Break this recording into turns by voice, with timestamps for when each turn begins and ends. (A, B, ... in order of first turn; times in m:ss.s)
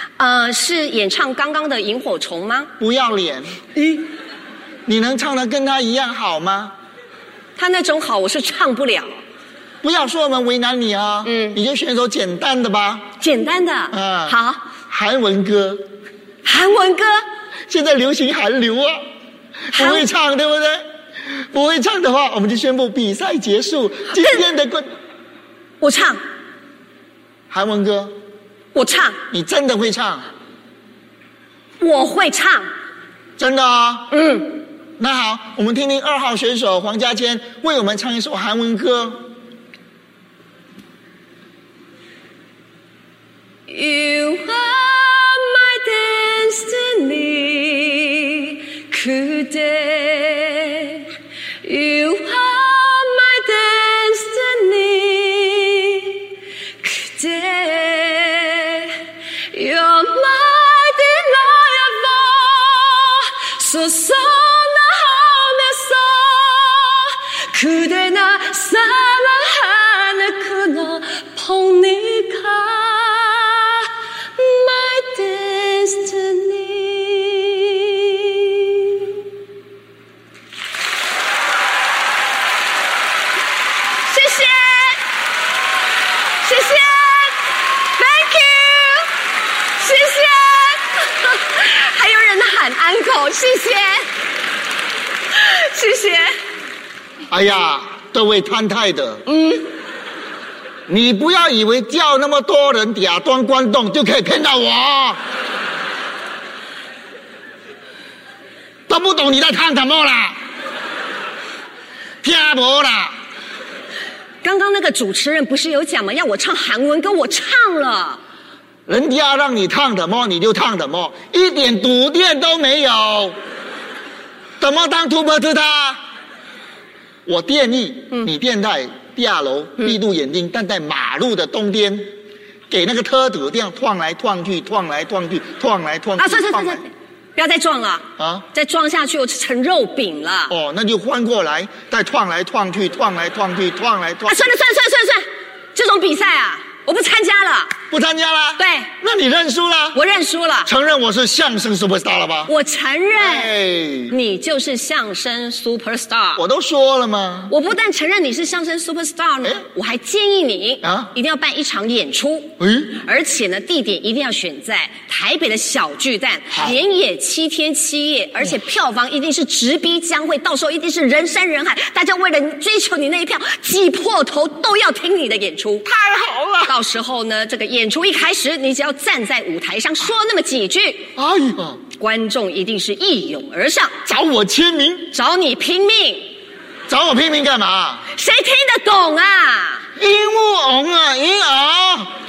0:00.2-0:02.7 A
0:02.8-0:03.6 B
0:03.8-0:04.0 A
0:04.8-0:06.7 B
0:07.6-0:09.2 A
0:09.8-0:13.1 B
0:11.2-0:11.6 A
0:13.2-0:14.6 A
0:13.9-0:14.4 B
0:14.9-0:15.9 B
0:16.4-0:17.2 A
0:17.7-0:19.0 B
0:19.7-0:24.9 B
0:19.7-0:20.0 A
0:25.8-0:26.2 A
0:27.5-0:28.2 B
0:28.7-0:29.2 A
0:29.3-0:30.2 B
0:31.8-0:32.7 A
0:33.4-0:34.1 B
0:34.1-0:34.6 A
0:35.0-0:39.3 B
0:43.7-0:51.1 A
0:51.6-1:19.2 A
1:24.0-1:25.0 A
1:26.4-1:29.1 A
1:29.8-1:34.1 A
1:35.3-1:36.4 A
1:37.3-1:39.2 B
1:39.3-1:39.7 A
1:40.9-1:45.2 B
1:48.9-1:50.4 B
1:52.2-1:53.2 B
1:54.4-1:58.2 A
1:58.9-2:03.4 B
2:04.6-2:06.0 B
2:07.2-2:12.1 B
2:12.7-2:16.8 B
2:16.2-2:20.5 A
2:18.2-2:18.4 B
2:20.5-2:24.5 B
2:24.3-2:27.7 A
2:27.9-2:30.0 B
2:28.6-2:28.9 A
2:29.9-2:30.7 A
2:30.6-2:32.5 B
2:32.4-2:33.5 A
2:33.2-2:34.1 B
2:34.1-2:36.4 A
2:36.4-2:37.5 B
2:37.5-2:55.8 A
2:40.8-2:41.1 B
2:42.6-2:43.0 B
2:55.8-2:56.7 B
2:56.6-3:01.1 A
3:01.2-3:01.8 B
3:02.0-3:04.0 A
3:04.0-3:05.1 B
3:05.1-3:06.3 A
3:06.9-3:08.0 B
3:08.1-3:09.8 A
3:10.0-3:12.1 B